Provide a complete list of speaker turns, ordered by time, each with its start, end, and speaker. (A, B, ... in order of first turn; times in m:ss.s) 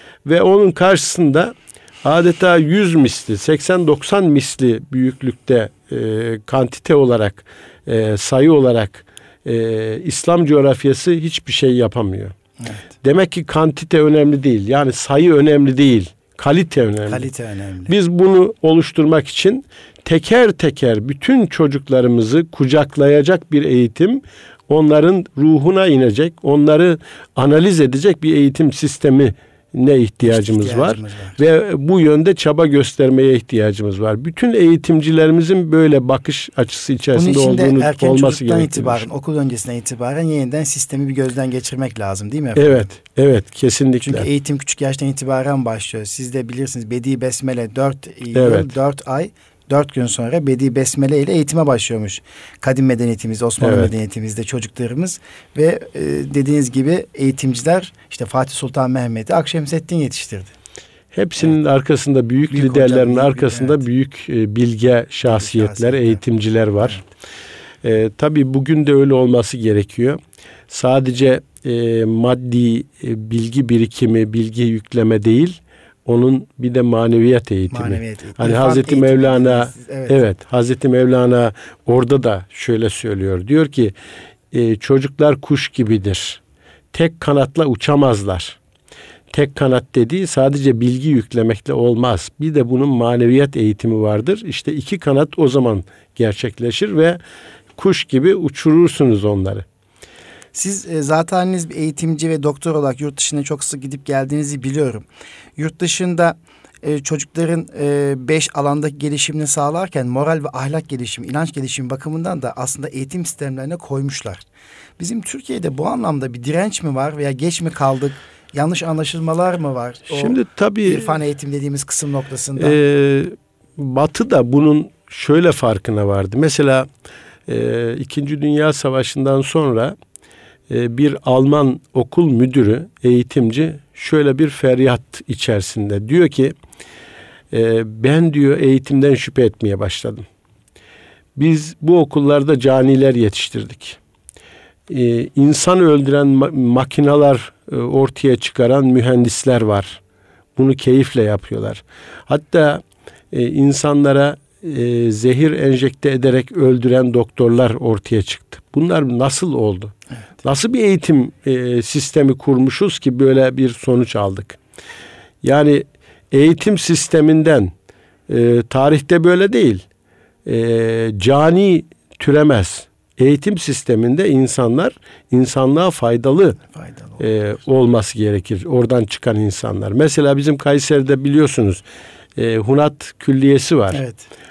0:00.2-0:12.4 A
0:12.6-0:12.9 B
0:13.0-0:17.3 A
0:17.1-0:17.9 B
0:17.9-0:39.1 A
0:30.2-0:31.4 B
0:37.1-0:42.9 B
0:42.6-0:44.3 A
0:44.0-1:00.5 B
0:48.3-0:48.7 A
0:53.6-0:53.9 A
1:01.1-1:07.0 A
1:02.5-1:03.8 B
1:05.2-1:06.2 B
1:07.8-1:23.9 A
1:17.7-1:20.2 B
1:24.5-1:26.4 A
1:26.9-1:28.6 A
1:29.3-1:37.2 A
1:37.8-1:39.6 A
1:40.5-1:45.1 B
1:45.6-1:54.4 B
1:55.0-2:02.8 B
2:00.1-2:01.1 A
2:02.6-2:06.9 A
2:07.5-2:10.0 A
2:10.7-2:16.6 A
2:17.5-2:20.2 A
2:21.4-2:24.0 A
2:24.9-2:30.0 A
2:30.6-2:44.6 A
2:45.4-2:47.7 A
2:48.3-2:49.8 A
2:50.4-2:56.6 A
2:56.7-2:57.2 B
2:57.2-3:01.8 A
3:02.4-3:04.0 A
3:03.9-3:04.3 B